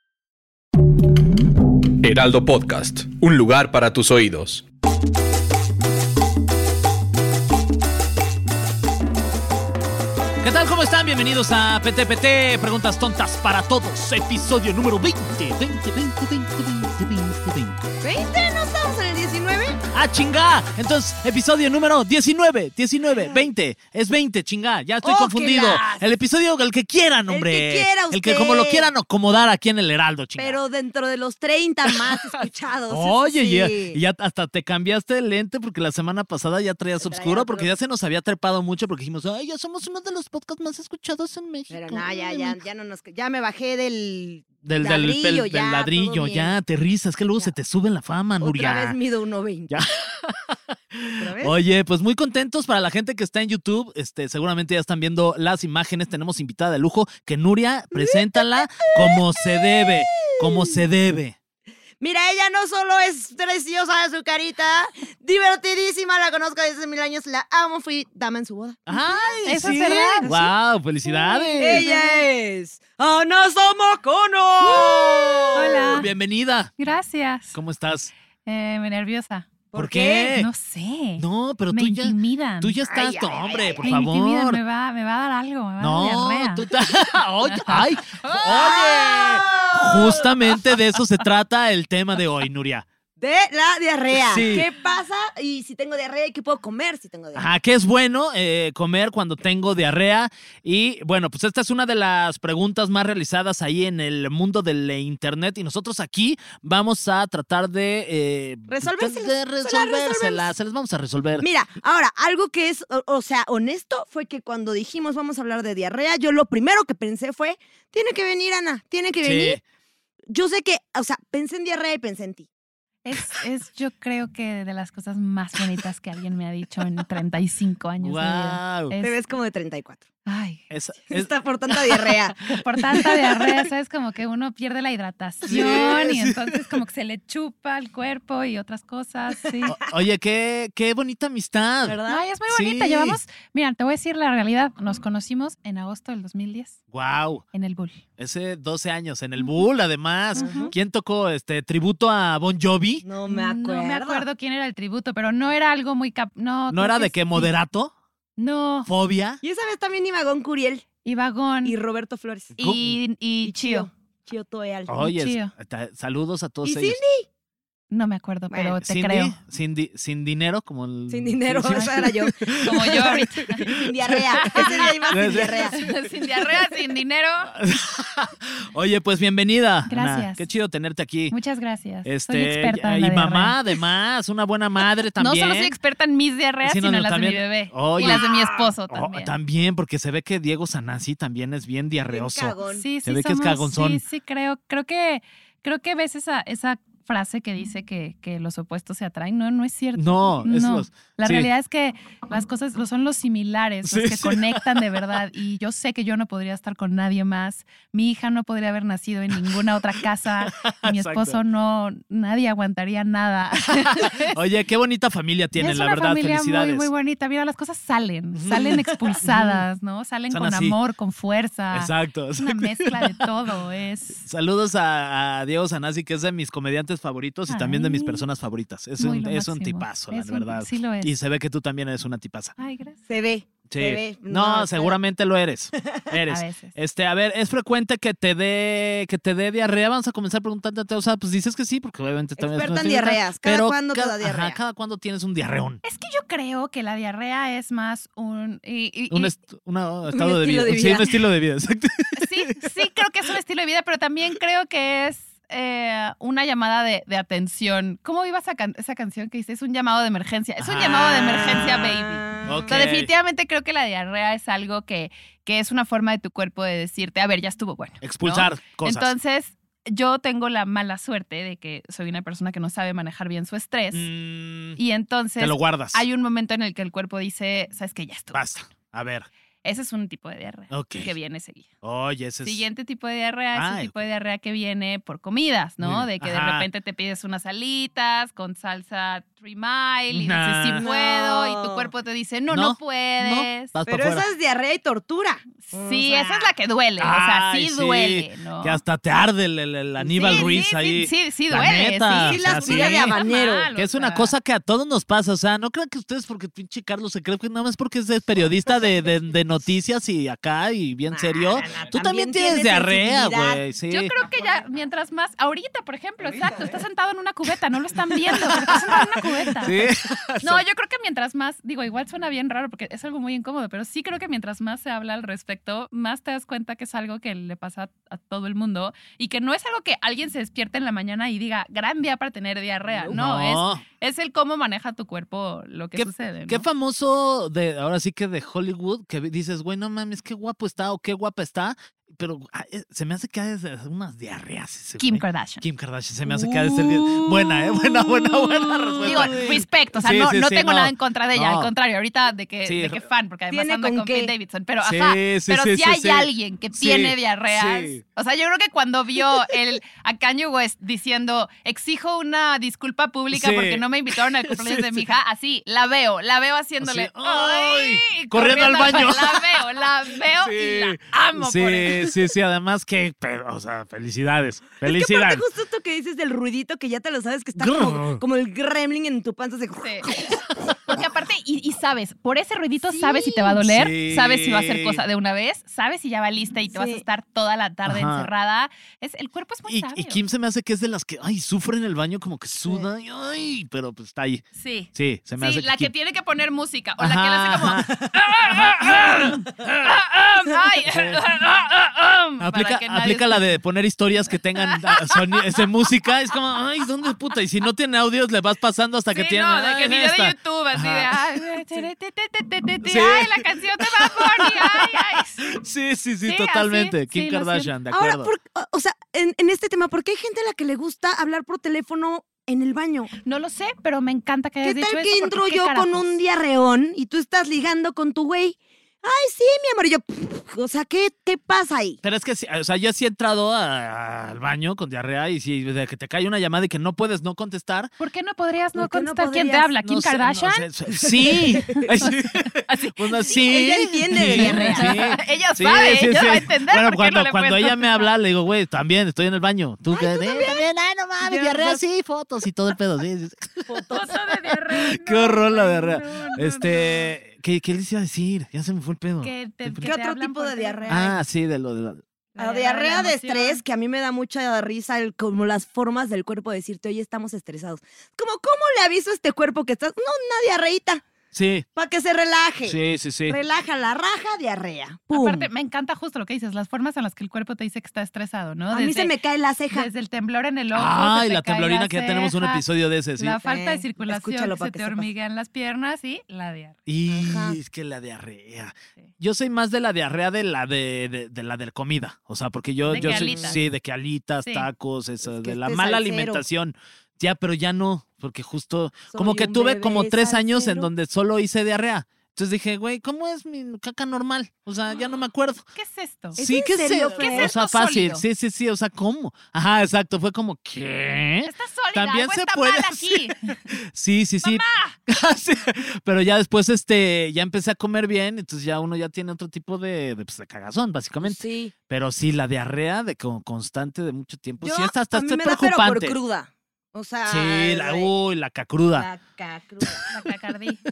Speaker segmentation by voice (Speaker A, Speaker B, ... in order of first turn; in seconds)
Speaker A: 2.0-4.6
Speaker B: 10.4-17.8, 19.9-30.6, 31.9-32.2, 32.9-42.6, 44.6-49.0, 49.7-61.4, 68.9-71.8, 74.7-76.7, 77.5-78.1, 79.7-80.5, 81.2-84.6, 85.8-92.8, 94.1-94.7, 97.3-111.5, 119.2-119.6, 128.0-128.9, 130.7-132.1, 135.4-136.6, 139.7-143.2, 146.9-147.4, 148.2-153.0, 156.7-157.9, 158.8-159.4, 162.5-163.0, 164.9-167.0, 168.8-175.8, 177.5-181.3, 182.0-185.7, 186.6-188.2, 188.9-194.0, 199.9-201.5, 203.8-204.9, 210.4-211.4, 213.7-216.9, 218.3-219.6, 220.3-220.8, 221.7-223.3, 224.2-232.5, 233.7-245.8, 249.1-252.5, 260.6-263.1, 268.0-269.1, 273.9-274.8, 275.4-276.0, 278.3-279.3, 280.7-281.1, 281.8-282.6, 283.5-284.0, 285.8-286.6, 290.1-290.9, 292.5-294.2, 297.0-303.2, 303.7-314.1, 318.1-320.6, 333.1-333.8, 335.9-351.7, 352.6-353.0, 354.8-358.0, 363.3-365.1, 366.8-369.6, 370.4-375.4, 377.5-378.2, 380.1-380.7, 383.6-385.0, 387.9-388.3, 389.7-395.9, 397.0-400.3, 400.9-401.8, 402.4-411.2, 412.8-414.9, 415.4-418.3, 432.0-437.9, 439.8-453.7, 454.7-459.9, 460.9-462.0, 471.3-471.6, 472.6-473.4, 480.7-483.4, 486.9-505.6, 506.4-526.2, 527.2-529.1
Speaker C: 18.0-19.8, 23.2-23.4, 25.0-26.0, 27.3-28.9, 30.4-34.0, 37.0-37.7, 41.7-46.6, 48.4-49.8, 51.2-51.6, 57.9-60.8, 62.0-70.5, 71.6-76.0, 79.7-80.4, 82.8-83.8, 88.4-90.3, 93.2-97.6, 108.7-110.5, 111.4-119.6, 120.3-122.5, 129.0-130.1, 131.1-132.4, 135.5-135.9, 139.6-139.9, 141.8-142.2, 150.3-150.7, 153.0-154.2, 159.4-160.8, 161.6-162.5, 163.4-164.9, 166.6-167.2, 171.1-175.8, 188.0-188.7, 192.1-192.8, 233.1-235.0, 242.4-244.6, 250.1-251.1, 261.9-262.7, 290.8-291.9, 293.9-296.5, 300.0-300.6, 302.2-303.7, 311.1-313.6, 346.4-347.2, 348.1-349.6, 353.5-354.3, 374.8-380.2, 382.9-383.6, 386.7-387.0, 417.9-423.1, 424.6-432.0, 438.7-439.8, 441.0-441.9, 443.4-445.1, 449.9-450.6, 451.2-451.8, 453.7-454.1, 459.8-461.1, 462.4-471.0, 471.8-475.5, 478.7-479.9, 483.4-485.1, 487.1-487.6, 492.9-493.6, 495.2-496.4, 499.1-500.9, 506.4-507.5, 521.2-521.7, 524.6-528.1, 528.9-530.0
Speaker D: 69.4-70.3, 71.0-72.2, 75.5-76.1, 76.8-77.6, 78.4-79.5, 80.3-82.8, 83.8-86.7, 87.4-88.8, 123.0-129.2, 130.2-131.1, 132.4-139.7, 142.1-146.8, 147.5-148.0, 150.3-150.7, 153.3-157.5, 158.4-158.9, 161.0-161.7, 162.6-163.9, 165.0-165.5, 167.9-169.3, 171.7-172.0, 172.6-173.7, 174.4-177.5, 179.9-180.4, 181.3-183.6, 185.2-189.3, 192.7-214.4, 215.6-224.2, 227.5-228.2, 229.0-231.1, 232.6-233.0, 236.3-236.7, 245.8-249.3, 252.1-274.1, 274.8-278.4, 279.6-281.7, 282.4-293.7, 295.6-298.8, 300.2-304.3, 313.9-319.7, 320.4-336.7, 345.0-345.6, 349.0-372.1, 379.8-380.1, 380.9-390.2, 394.5-403.6, 404.6-405.2, 409.1-415.6, 416.2-417.7, 423.2-426.2, 438.0-440.7, 442.0-443.4, 444.2-448.1, 453.9-457.1, 459.2-461.1, 462.3-463.6, 475.1-479.1, 479.7-482.6, 483.2-486.8, 492.9-493.6, 494.4-494.7, 505.7-506.4, 507.2-508.2, 511.4-513.4, 514.4-515.0, 530.1-530.8